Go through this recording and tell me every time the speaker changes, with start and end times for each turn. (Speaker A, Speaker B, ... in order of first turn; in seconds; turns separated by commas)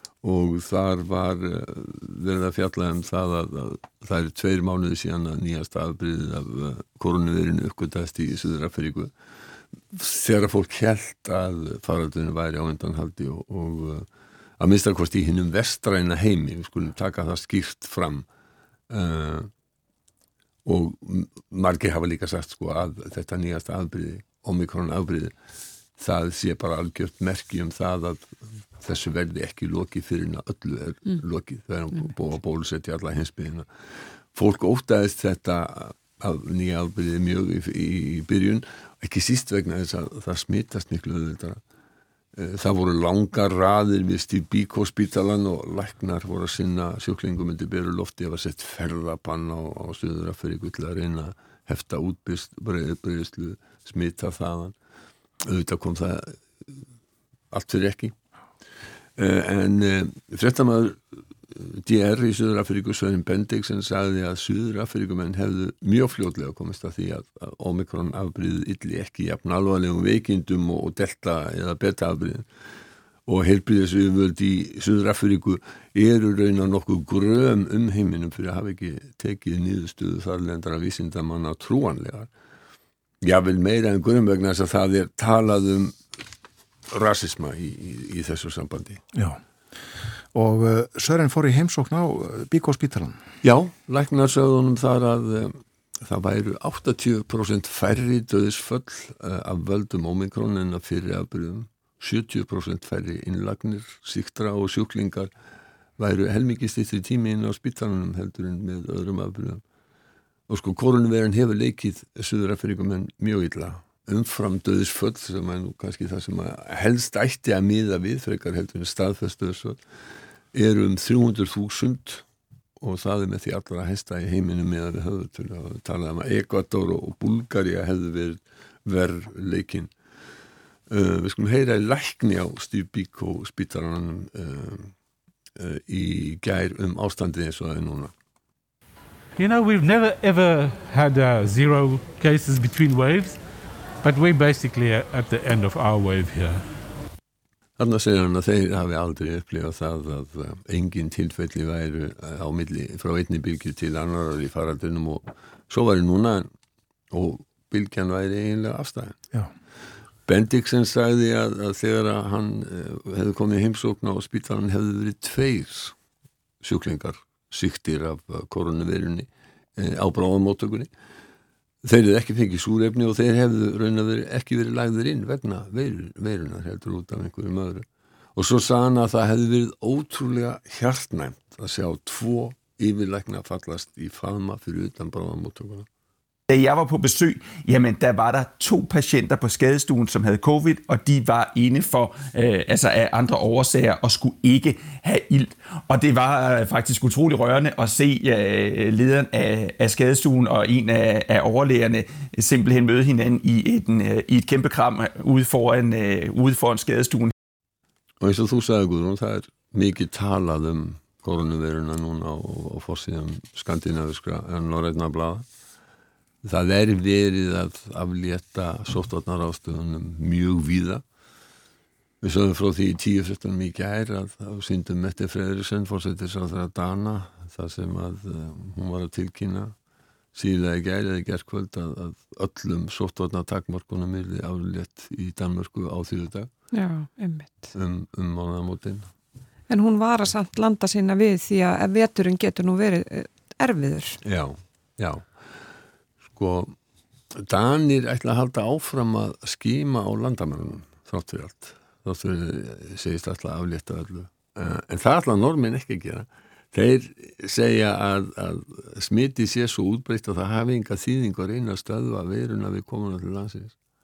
Speaker A: 0.2-9.1, Speaker A: 9.9-14.1, Speaker A: 14.6-18.2, Speaker A: 18.9-19.5, Speaker A: 20.6-25.3, Speaker A: 26.0-33.6, Speaker A: 34.3-41.6, Speaker A: 42.4-54.7, Speaker A: 55.4-56.7, Speaker A: 57.5-58.1, Speaker A: 59.2-72.4, Speaker A: 73.2-82.3, Speaker A: 83.2-86.0, Speaker A: 86.9-89.0, Speaker B: 89.1-89.4, Speaker B: 90.3-93.2, Speaker A: 93.4-105.3, Speaker A: 106.0-109.6, Speaker A: 110.5-119.8, Speaker A: 120.5-122.2, Speaker A: 122.8-129.9, Speaker A: 130.9-134.9, Speaker A: 135.6-138.1, Speaker C: 139.4-143.4, Speaker C: 144.0-146.6, Speaker A: 147.8-156.5, Speaker A: 157.1-159.2, Speaker A: 160.3-165.9, Speaker A: 166.6-170.9, Speaker A: 171.8-185.9, Speaker D: 186.5-207.3, Speaker A: 208.2-215.4, Speaker A: 216.4-221.0, Speaker A: 222.2-229.7, Speaker A: 230.3-236.5, Speaker E: 236.7-237.7, Speaker A: 237.7-239.1, Speaker E: 239.7-244.2, Speaker A: 244.2-245.3, Speaker A: 246.3-246.7, Speaker A: 247.3-263.7